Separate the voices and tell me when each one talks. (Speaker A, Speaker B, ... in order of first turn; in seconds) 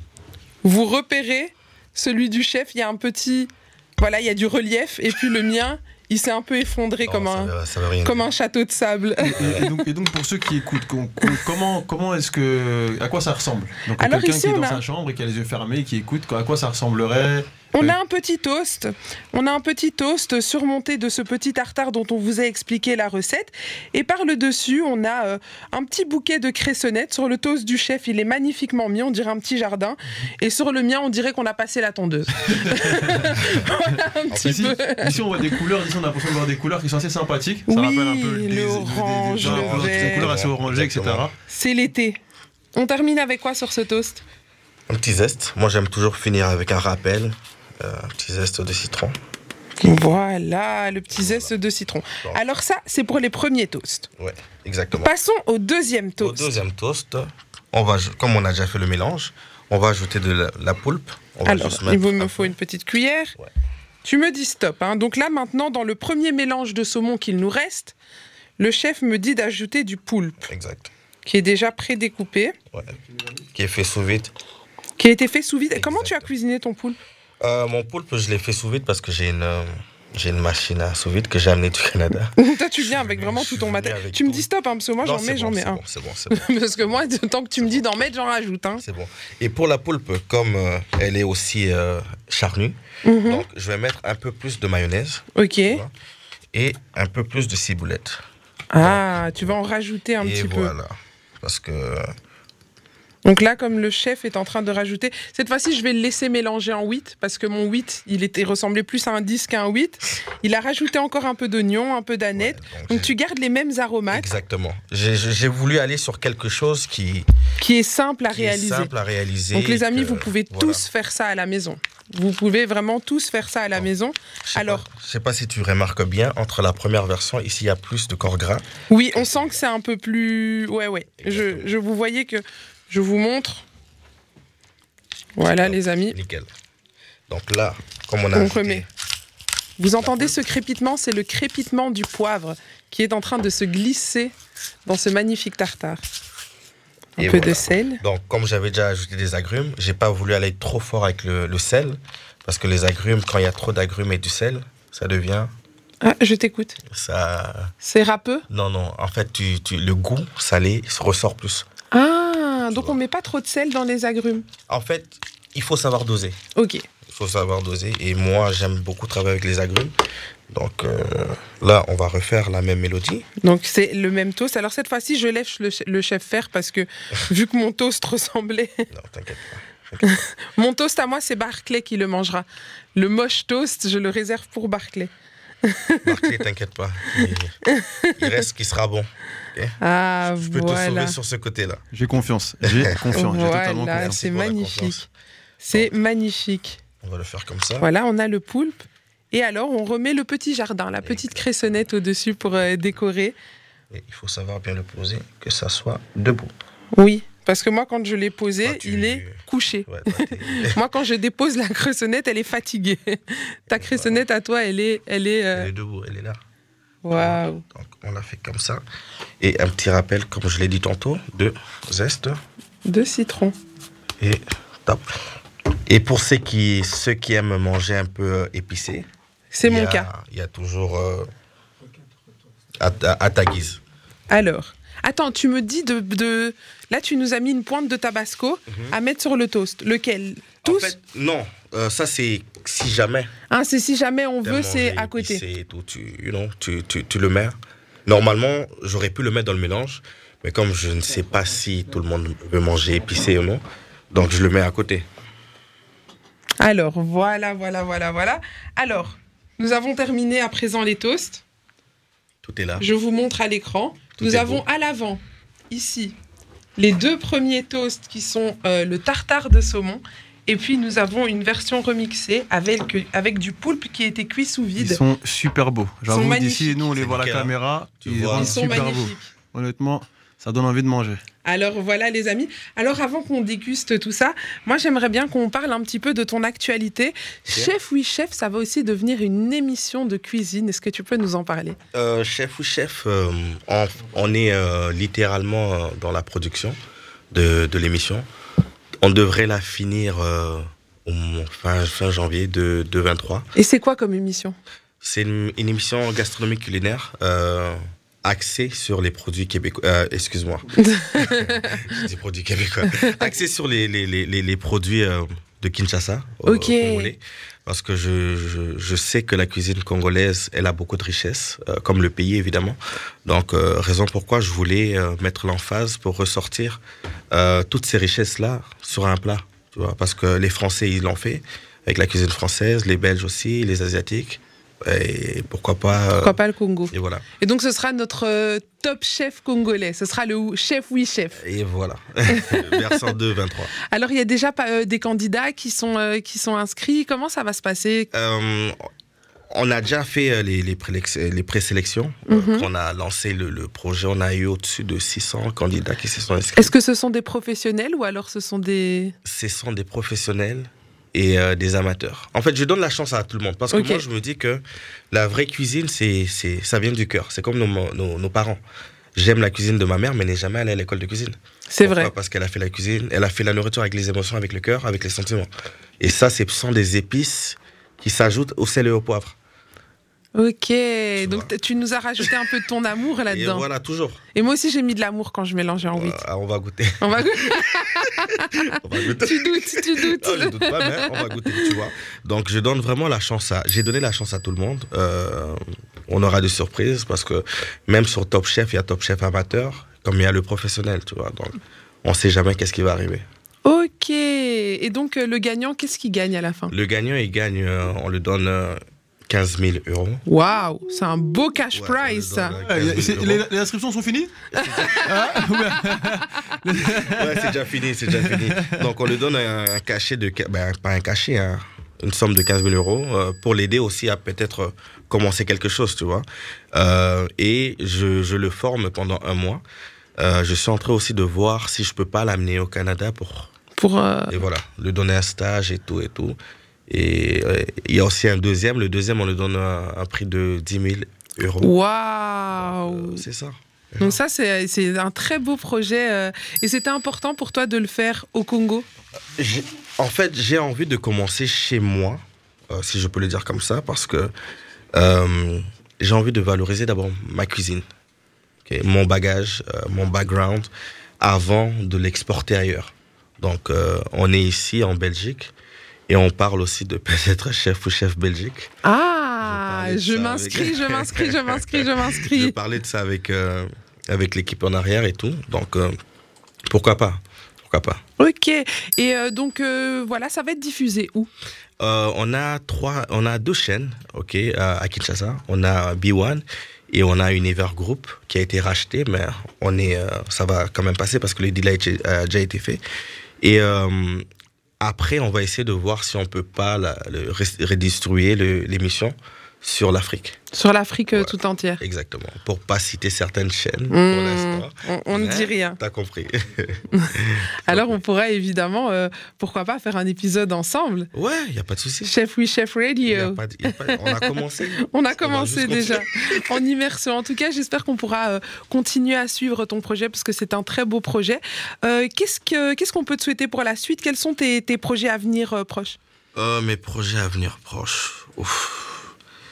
Speaker A: 0.6-7.5, 8.0-9.8, 14.0-14.8, 17.8-35.4, 37.7-40.3, 41.5-42.2, 42.8-44.2, 49.8-54.1, 55.0-56.6, 61.5-63.4, 64.0-68.0, 68.6-70.5, 71.3-72.5, 75.0-77.0, 82.4-88.8, 93.0-93.4, 95.3-95.8, 98.7-100.7, 103.2-114.3, 117.6-118.9, 119.5-124.9, 128.9-133.6, 135.4-136.2, 138.3-138.8, 139.8-144.3, 144.9-146.0, 147.2-148.0, 156.0-156.8, 157.8-158.5, 161.9-164.5, 166.6-166.9, 173.4-178.9, 180.0-185.1, 185.6-186.4, 187.2-188.4, 189.8-191.2, 193.1-195.1, 195.6-196.8, 197.8-203.4, 206.9-215.7, 217.0-217.6, 222.8-223.6, 229.5-230.1, 234.3-240.9, 243.5-245.4, 256.6-261.4, 262.8-266.2, 266.8-275.0, 276.1-276.9, 278.3-279.3, 281.4-291.8, 303.6-304.6, 310.8-311.9, 312.9-313.3, 316.4-317.1, 336.2-341.4, 342.3-343.0, 343.8-348.1, 352.3-352.7, 356.6-359.2, 363.7-364.0, 371.7-372.1, 380.4-383.7, 384.3-386.2, 387.0-391.8, 403.6-406.7, 410.3-412.6, 414.6-415.1, 433.8-434.4, 441.6-443.2, 444.0-448.9, 468.8-472.6, 478.2-481.3, 500.5-501.8, 503.9-505.8, 507.7-511.1, 512.0-526.0
Speaker B: 7.0-8.3, 9.4-9.7, 34.3-34.7, 39.4-41.3, 44.9-49.2, 51.1-51.5, 54.2-55.1, 56.2-62.5, 70.5-70.9, 72.7-73.0, 73.5-74.3, 75.8-76.3, 77.4-84.5, 85.0-86.5, 88.8-95.9, 96.5-98.2, 98.8-99.6, 100.2-102.1, 112.3-113.1, 114.1-117.3, 118.3-120.8, 124.5-129.6, 131.2-131.7, 135.6-136.5, 137.3-138.9, 140.0-140.3, 147.2-155.5, 156.9-157.7, 158.5-161.7, 162.7-163.0, 164.7-166.4, 167.1-169.9, 170.5-173.3, 178.9-180.2, 186.0-187.6, 188.2-191.8, 192.6-193.2, 193.9-195.1, 197.0-197.9, 201.0-201.4, 203.9-206.5, 208.6-210.8, 213.7-214.2, 215.5-216.4, 217.1-218.8, 219.4-222.4, 224.2-225.1, 225.9-229.1, 229.6-231.3, 232.8-233.8, 238.7-239.0, 240.6-243.3, 244.4-247.6, 248.1-255.1, 262.4-262.9, 264.2-264.6, 277.0-277.5, 278.0-279.0, 287.5-287.7, 291.9-296.8, 297.3-298.3, 299.0-303.5, 305.0-326.8, 327.3-336.4, 336.9-337.2, 341.4-343.7, 348.1-348.9, 349.5-356.7, 359.2-368.6, 369.2-379.4, 381.2-381.5, 383.3-384.2, 385.8-403.2, 406.7-410.2, 411.7-413.5, 416.9-429.6, 430.2-433.5, 434.3-441.7, 442.6-444.2, 449.4-454.3, 454.9-457.9, 458.6-465.5, 466.1-468.7, 469.4-476.0, 476.7-478.0, 481.8-492.8, 493.4-494.2, 494.8-500.4, 501.1-508.0, 511.1-512.1, 513.1-516.4, 526.3-529.1
Speaker C: 9.2-17.9, 32.5-33.5, 34.3-41.3, 191.9-194.2, 274.8-281.2, 412.6-418.9